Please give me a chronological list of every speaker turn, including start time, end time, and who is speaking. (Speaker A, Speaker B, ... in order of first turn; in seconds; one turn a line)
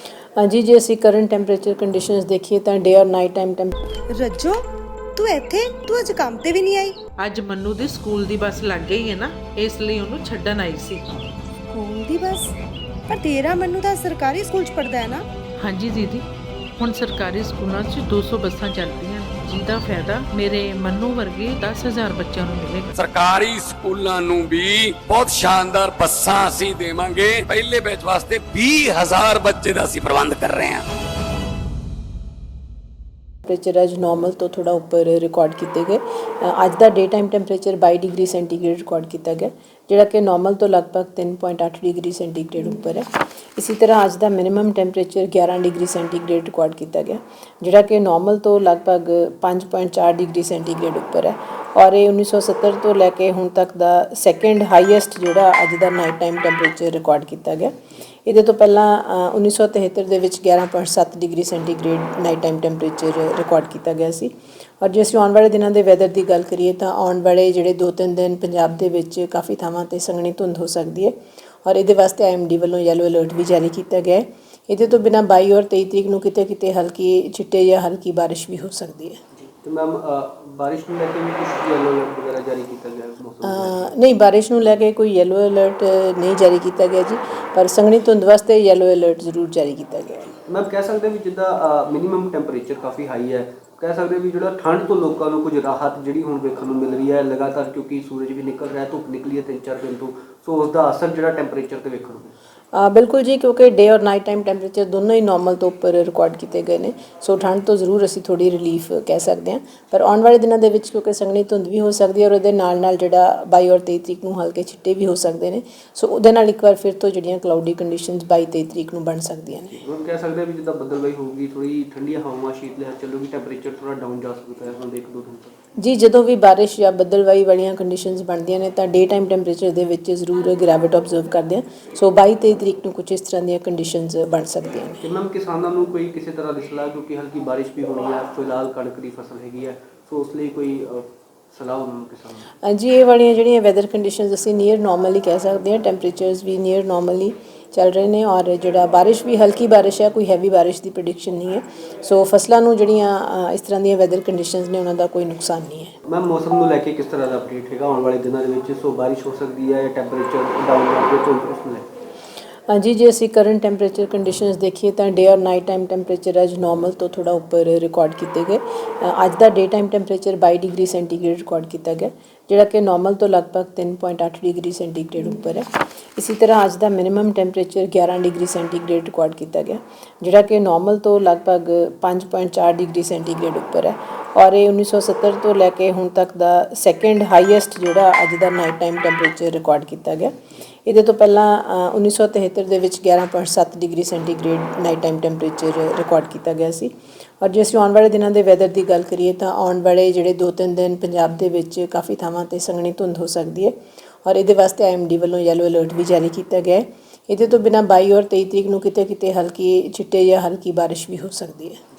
Speaker A: 0.4-3.7
Speaker B: 4.1-4.6
Speaker B: 5.2-7.0
Speaker C: 7.2-11.0
Speaker B: 11.7-12.5
Speaker B: 13.1-15.2
Speaker C: 15.6-16.2
Speaker C: 16.8-22.9
Speaker D: 22.9-30.8
Speaker A: 33.5-57.7
Speaker A: 58.2-79.2
Speaker E: 79.6-83.9
Speaker A: 83.4-90.3
Speaker E: 90.5-102.3
Speaker A: 102.7-119.8
Speaker E: 119.8-125.5
Speaker A: 125.8-135.0
Speaker E: 135.0-142.5
Speaker A: 142.6-155.9
Speaker E: 156.1-161.9
Speaker A: 162.7-190.3
Speaker A: 190.8-211.8